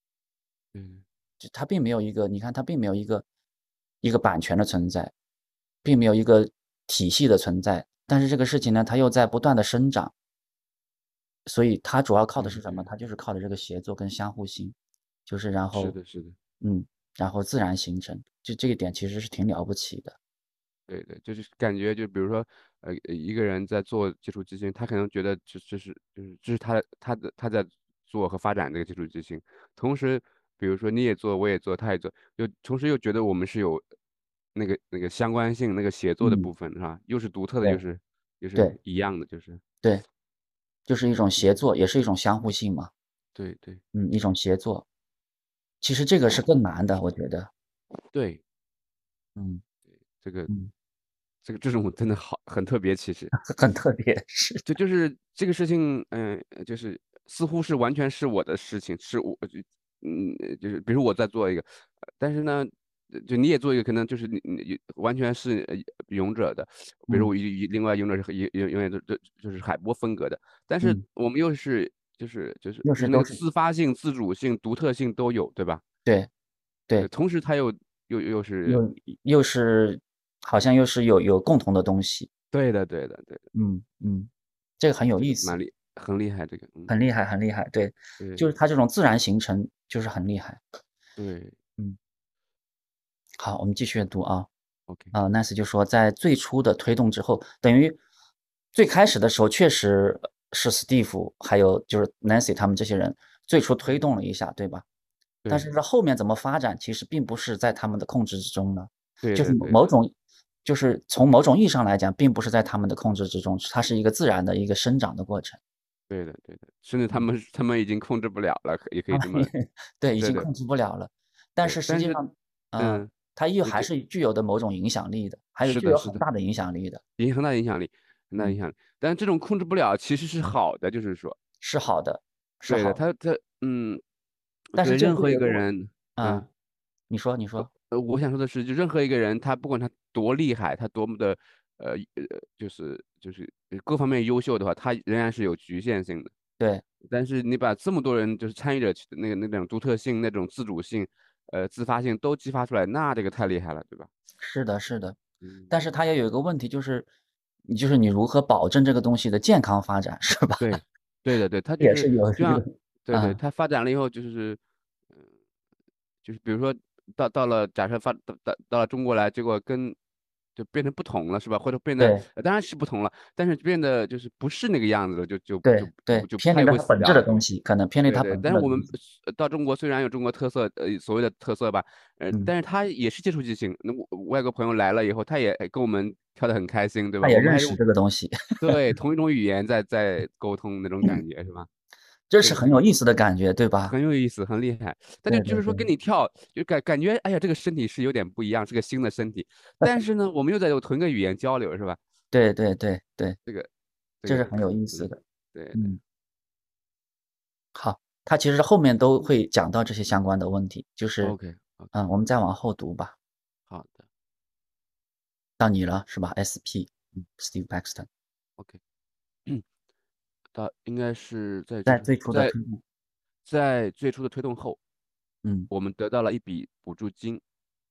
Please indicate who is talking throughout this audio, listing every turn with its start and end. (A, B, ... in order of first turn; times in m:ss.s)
0:00.7-0:01.0 A
0:01.4-0:03.2 B
0:04.0-0:05.1 B
0:05.8-0:10.1 B
0:11.4-0:14.8 B
0:12.4-0:12.9 A
0:15.3-0:16.0 B
0:15.7-0:16.4 A
0:16.6-0:20.2 B
0:20.9-0:33.8 A
0:34.5-0:39.6 A
0:36.2-0:36.5 B
0:40.9-0:42.9 B
0:43.3-0:43.8 A
0:43.9-0:44.8 B
0:45.8-0:47.5 B
0:48.1-0:48.4 A
0:49.4-0:49.6 B
0:50.2-0:50.5 A
0:51.4-0:53.3 A
0:53.5-0:54.6 B
0:54.6-1:01.6 A
1:02.2-1:15.8 A
1:12.8-1:13.4 B
1:17.0-1:18.8 A
1:18.6-1:22.3 B
1:22.5-1:23.4 A
1:23.5-1:25.6 B
1:25.2-1:26.9 A
1:26.9-1:30.6 B
1:28.2-1:28.5 A
1:31.2-1:31.6 A
1:33.4-1:34.5 B
1:34.9-1:35.1 A
1:35.1-1:38.0 B
1:38.7-1:44.8 B
1:45.5-1:50.1 B
1:49.2-1:49.8 A
1:50.6-1:55.6 B
1:56.1-1:59.5 A
1:59.1-2:07.0 B
2:00.2-2:00.5 A
2:01.6-2:02.2 A
2:02.8-2:03.9 A
2:05.6-2:06.2 A
2:07.2-2:11.4 A
2:11.6-2:13.0 B
2:12.7-2:14.0 A
2:14.7-2:16.4 A
2:14.8-2:15.6 B
2:16.2-2:16.5 B
2:17.1-2:17.7 B
2:17.6-2:26.3 A
2:26.6-2:26.8 B
2:27.0-2:34.1 A
2:34.4-2:35.2 B
2:35.4-2:35.7 A
2:35.7-2:37.1 B
2:37.6-2:40.6 B
2:40.6-2:44.6 A
2:41.8-2:43.4 B
2:46.2-2:50.0 A
2:50.6-2:57.4 A
2:55.6-2:58.9 B
2:58.0-3:07.8 A
3:07.2-3:08.6 B
3:08.6-3:11.7 A
3:12.3-3:13.9 B
3:12.4-3:12.7 A
3:13.9-3:22.0 A
3:15.3-3:15.9 B
3:22.3-3:23.4 B
3:24.2-3:26.0 A
3:24.2-3:25.2 B
3:25.7-3:26.0 B
3:27.7-3:31.3 B
3:31.2-3:31.9 A
3:31.9-3:33.1 B
3:33.7-3:34.0 A
3:35.6-3:38.1 B
3:40.5-3:42.5 A
3:41.8-3:42.8 B
3:43.4-3:44.8 A
3:45.4-3:45.7 B
3:45.7-3:47.4 A